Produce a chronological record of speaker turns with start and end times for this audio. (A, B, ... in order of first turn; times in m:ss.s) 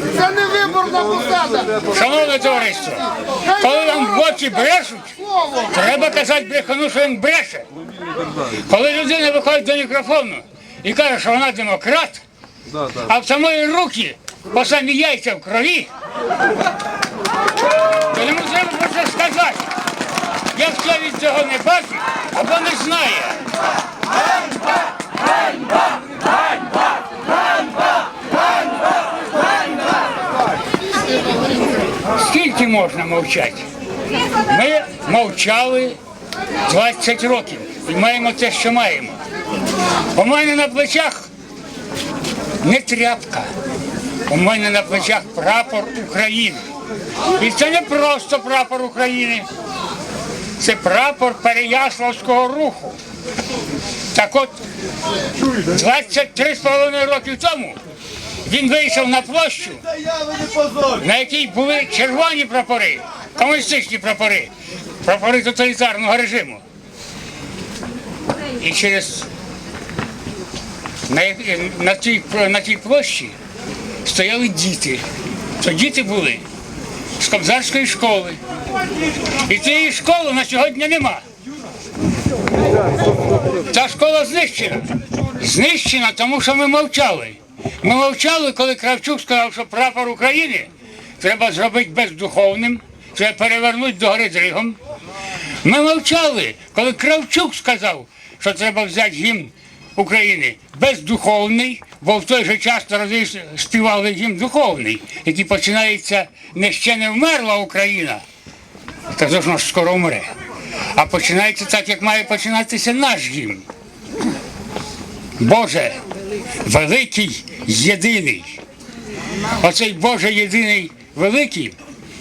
0:01.9-0:07.7 A
0:08.6-0:12.2 A
0:13.0-0:15.9 A
0:17.9-0:19.7 A
0:20.5-0:23.4 A
0:32.1-0:33.7 A
0:34.4-0:36.0 A
0:36.7-0:39.2 A
0:40.1-0:41.3 A
0:42.6-0:43.5 A
0:44.3-0:46.7 A
0:47.4-0:49.5 A
0:50.6-0:53.0 A
0:54.1-0:54.6 A
0:55.6-0:57.8 A
0:58.4-0:59.8 A
1:01.0-1:04.5 A
1:05.0-1:06.6 A
1:08.6-1:09.3 A
1:11.1-1:13.4 A
1:14.0-1:15.0 A
1:15.6-1:16.4 A
1:17.2-1:18.4 A
1:19.4-1:21.2 A
1:23.7-1:34.8 A
1:35.6-1:48.2 A
1:49.1-1:50.3 A
1:50.9-1:53.6 A
1:55.4-1:56.0 A
1:56.6-1:58.6 A
1:59.6-2:01.8 A